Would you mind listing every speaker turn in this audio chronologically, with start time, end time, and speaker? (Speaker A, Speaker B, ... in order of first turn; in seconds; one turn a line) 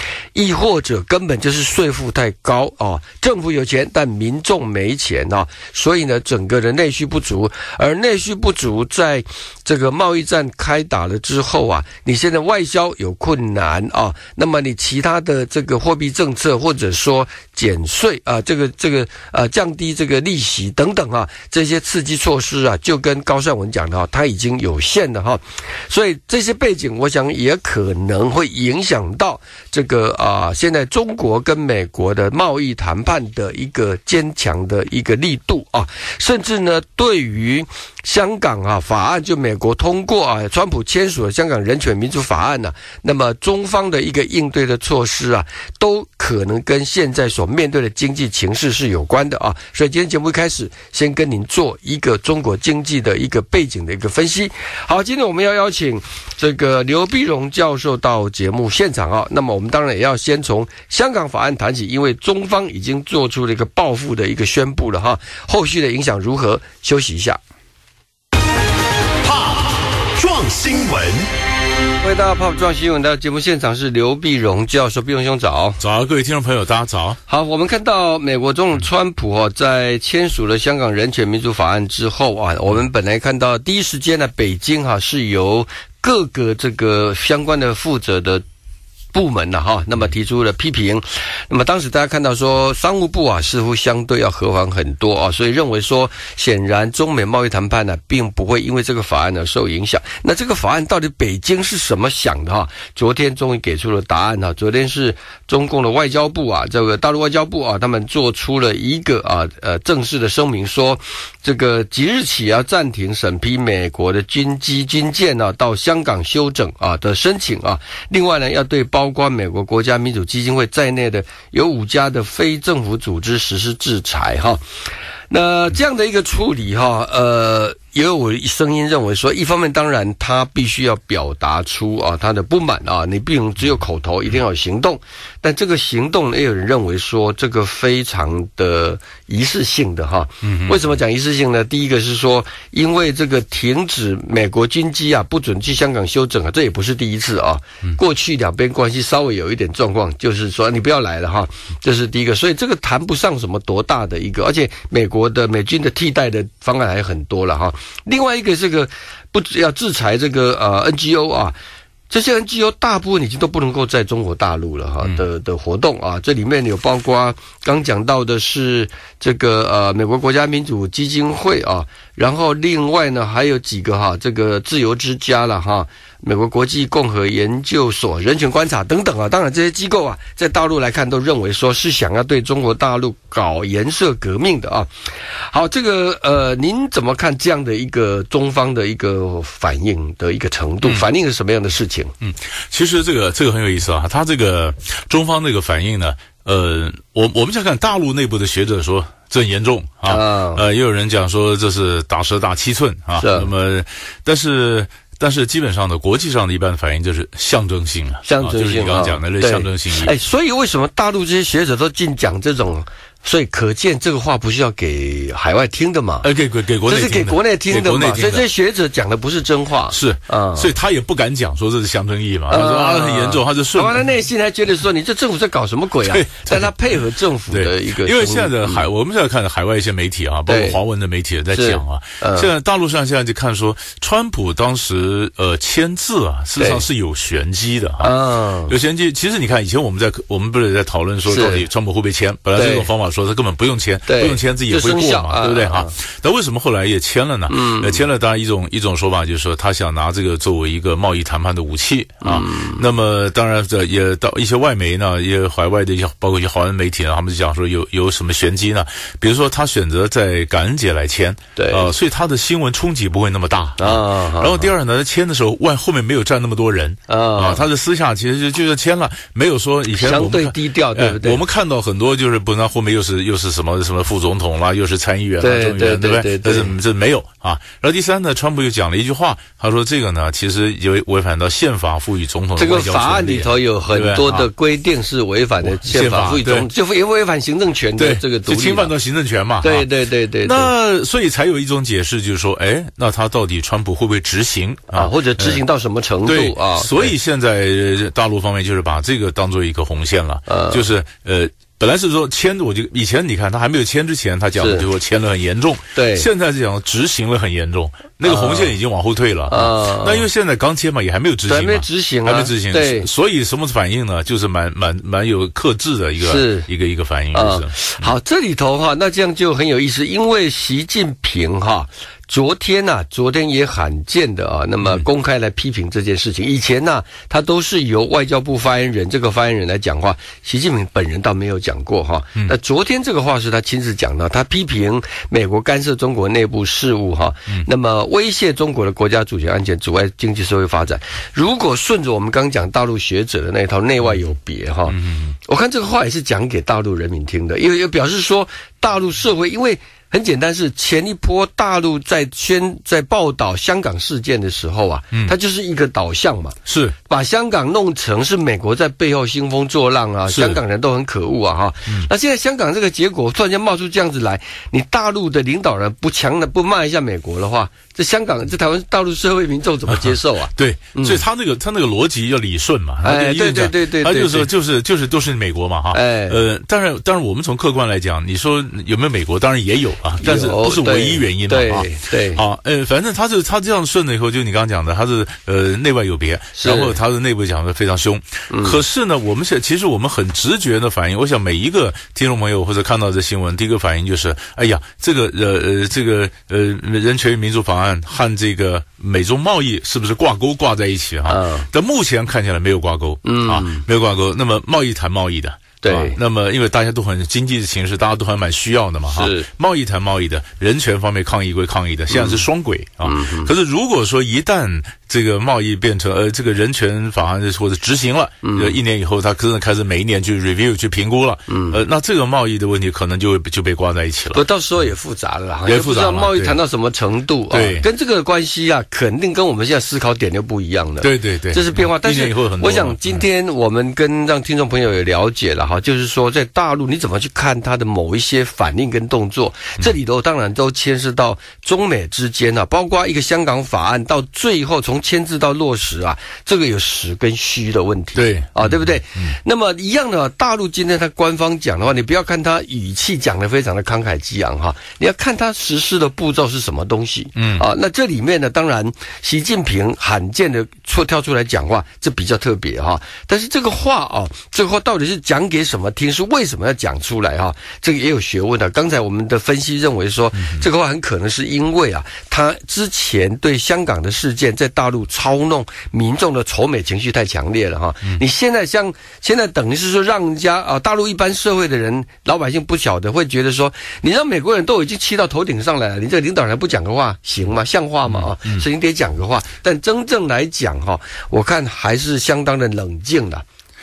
Speaker A: 0.3-67.4
Speaker B: 69.2-71.3
Speaker A: 72.0-75.8
Speaker C: 75.8-77.2
Speaker A: 77.3-88.4
Speaker A: 89.1-124.6
Speaker A: 125.3-161.5
Speaker C: 140.4-140.8
Speaker A: 162.1-184.9
Speaker A: 185.5-192.1
Speaker C: 192.2-210.1
Speaker A: 200.1-200.6
Speaker A: 203.2-203.5
Speaker A: 208.2-216.3
Speaker C: 216.2-218.4
Speaker A: 216.8-220.7
Speaker C: 219.9-224.0
Speaker A: 222.5-228.8
Speaker C: 226.0-226.7
Speaker C: 227.5-238.1
Speaker A: 230.5-230.8
Speaker A: 231.5-232.5
Speaker A: 236.6-236.8
Speaker A: 238.0-238.7
Speaker C: 238.7-284.5
Speaker A: 241.3-241.6
Speaker A: 242.6-242.9
Speaker A: 244.1-245.9
Speaker A: 247.5-248.0
Speaker A: 252.2-252.8
Speaker A: 261.6-261.9
Speaker A: 263.8-264.7
Speaker A: 267.1-267.6
Speaker A: 269.9-271.4
Speaker A: 275.4-276.7
Speaker A: 282.6-288.9
Speaker C: 285.6-286.7
Speaker C: 288.0-289.9
Speaker A: 289.6-290.7
Speaker C: 290.4-295.6
Speaker A: 294.9-297.1
Speaker C: 296.2-318.1
Speaker A: 300.5-300.8
Speaker A: 304.6-304.9
Speaker A: 305.9-306.3
Speaker A: 308.2-308.7
Speaker A: 309.5-310.2
Speaker A: 311.5-313.1
Speaker A: 316.2-316.7
Speaker A: 317.3-344.9
Speaker C: 344.9-345.4
Speaker A: 345.5-371.2
Speaker C: 356.7-356.9
Speaker C: 360.3-360.6
Speaker C: 369.9-424.4
Speaker A: 373.0-374.5
Speaker A: 375.9-376.4
Speaker A: 380.2-382.4
Speaker A: 386.6-386.9
Speaker A: 388.5-388.8
Speaker A: 401.3-401.7
Speaker A: 403.2-403.8
Speaker A: 405.8-406.2
Speaker A: 409.1-409.5
Speaker A: 412.1-412.4
Speaker A: 413.0-413.5
Speaker A: 418.4-418.8
Speaker A: 421.5-421.8
Speaker A: 424.3-493.4
Speaker C: 425.6-426.6
Speaker C: 427.5-427.9
Speaker C: 431.0-433.2
Speaker C: 448.1-449.3
Speaker C: 457.4-457.6
Speaker C: 470.4-470.6
Speaker C: 488.1-488.6